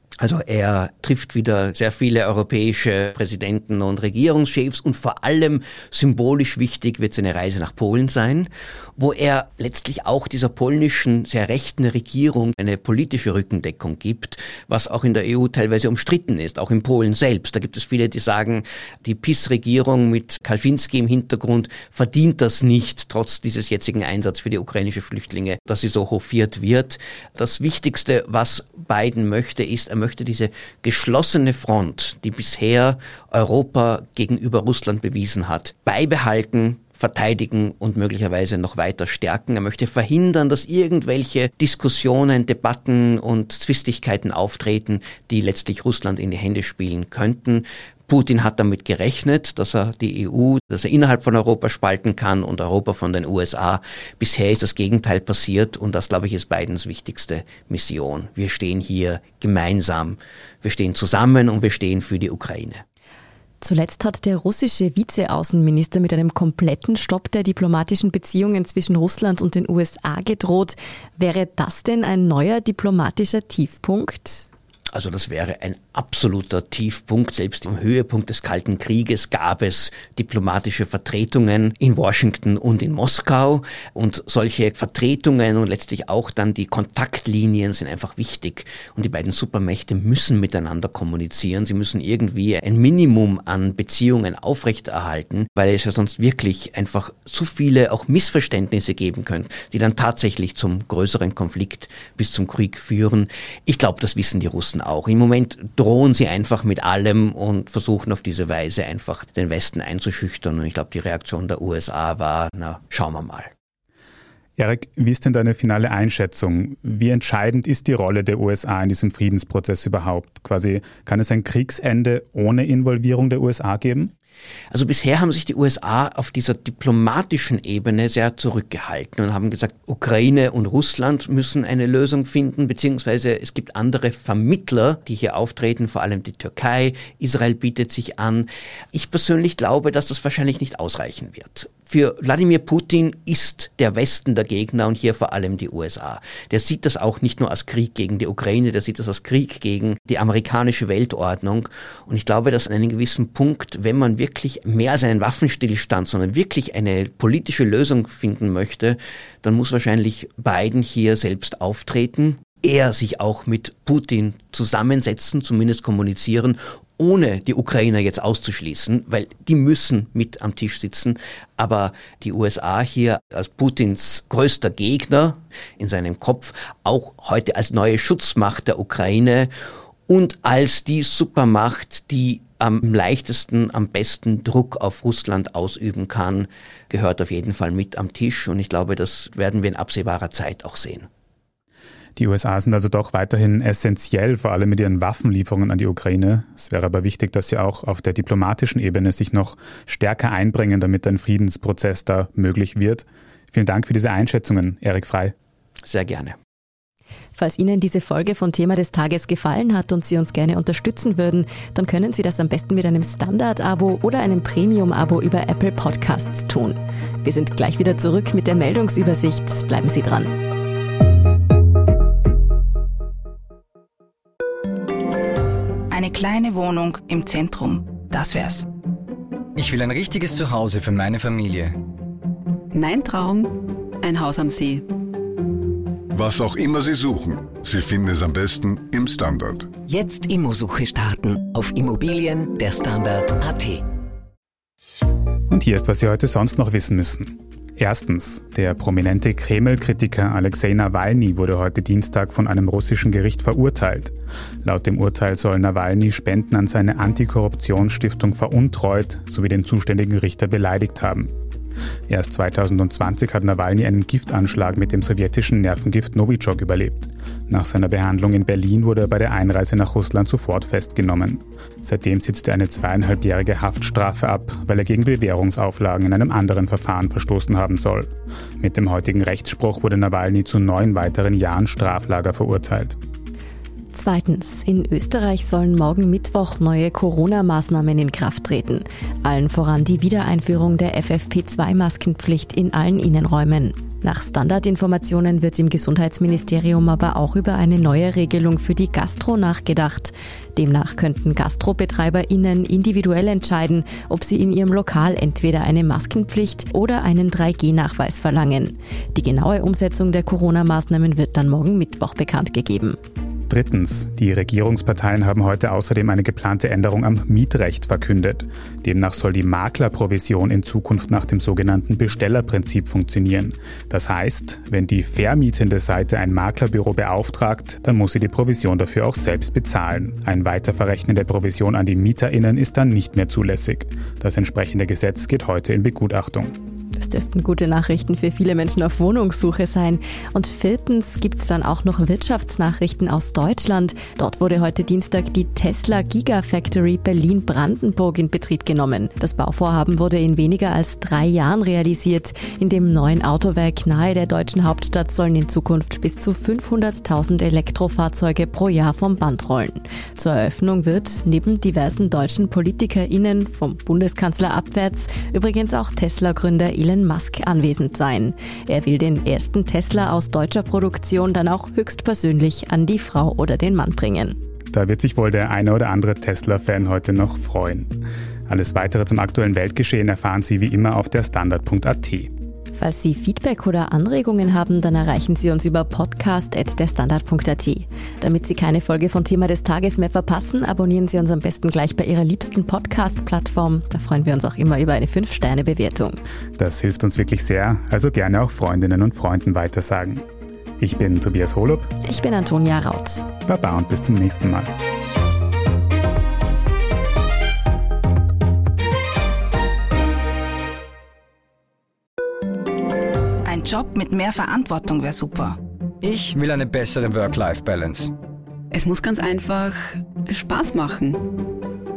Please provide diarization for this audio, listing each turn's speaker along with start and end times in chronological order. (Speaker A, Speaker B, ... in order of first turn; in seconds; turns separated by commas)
Speaker A: 0.2-62.8, Speaker B: 63.6-74.5, Speaker A: 74.9-113.5, Speaker C: 114.6-124.1, Speaker A: 124.7-179.5, Speaker A: 180.1-191.1, Speaker C: 192.2-205.3, Speaker A: 205.8-206.4, Speaker B: 207.4-220.3, Speaker D: 225.9-228.7, Speaker E: 229.6-231.8, Speaker F: 232.7-234.8, Speaker G: 236.1-239.7, Speaker H: 239.9-243.8, Speaker C: 245.5-261.3, Speaker C: 262.1-283.0, Speaker B: 283.9-313.0, Speaker C: 313.5-336.5, Speaker B: 337.0-374.4, Speaker C: 374.7-377.9, Speaker C: 378.5-382.3, Speaker B: 382.8-396.2, Speaker C: 396.6-400.2, Speaker C: 400.8-401.9, Speaker B: 402.0-403.3, Speaker C: 403.5-404.7, Speaker D: 413.4-415.6, Speaker E: 416.0-418.1, Speaker F: 418.7-421.2